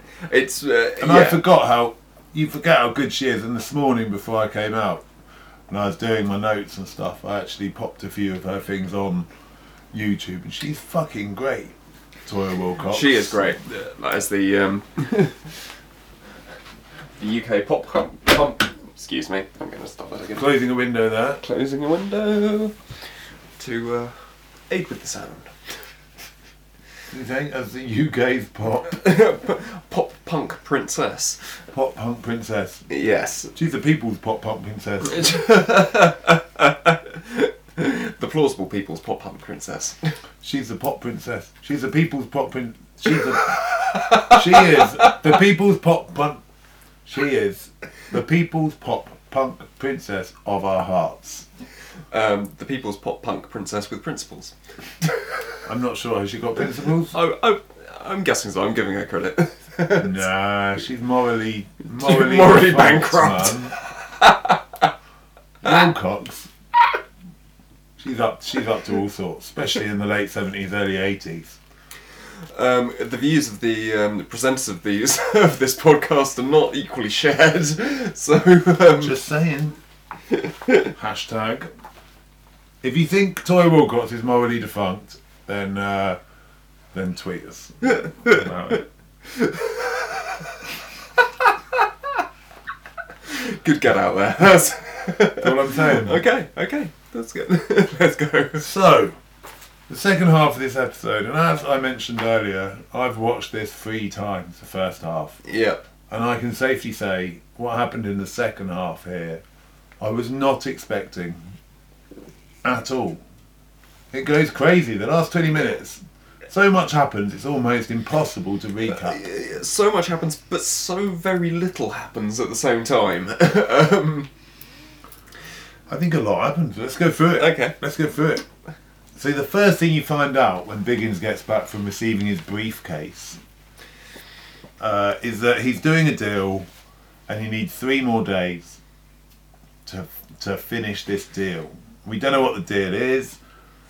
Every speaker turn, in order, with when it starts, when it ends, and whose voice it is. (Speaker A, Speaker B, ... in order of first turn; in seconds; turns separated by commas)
Speaker A: 0.3-1.4, Speaker B: 1.0-5.0, Speaker B: 5.7-9.3, Speaker B: 9.9-13.5, Speaker A: 12.9-15.6, Speaker A: 17.2-20.5, Speaker B: 20.4-21.4, Speaker A: 21.4-22.8, Speaker A: 23.6-24.2, Speaker A: 24.7-25.5, Speaker B: 27.1-29.0, Speaker A: 28.9-31.5, Speaker B: 31.7-32.9, Speaker A: 32.9-33.5, Speaker B: 33.5-35.5, Speaker A: 35.1-40.1, Speaker B: 40.4-43.6, Speaker A: 43.3-45.3, Speaker B: 44.1-46.4, Speaker B: 47.1-51.5, Speaker A: 52.1-55.3, Speaker B: 55.6-57.1, Speaker A: 57.1-60.2, Speaker B: 60.0-63.7, Speaker A: 62.0-64.9, Speaker B: 65.6-66.5, Speaker B: 68.0-71.6, Speaker A: 72.5-79.2, Speaker B: 79.0-79.8, Speaker A: 80.3-80.9, Speaker B: 81.0-81.7, Speaker B: 82.8-86.2, Speaker B: 86.9-88.8, Speaker A: 87.8-90.5, Speaker A: 91.2-91.9, Speaker A: 93.2-98.7, Speaker B: 95.4-96.2, Speaker B: 98.6-99.2, Speaker B: 99.9-105.4, Speaker A: 105.5-105.8, Speaker B: 106.1-109.4, Speaker B: 110.0-111.4, Speaker B: 112.6-113.2, Speaker B: 114.1-119.2, Speaker A: 118.9-124.3, Speaker B: 125.9-128.4, Speaker A: 127.4-127.8, Speaker B: 129.2-133.4, Speaker B: 134.8-136.7, Speaker B: 137.3-138.8, Speaker B: 139.8-143.4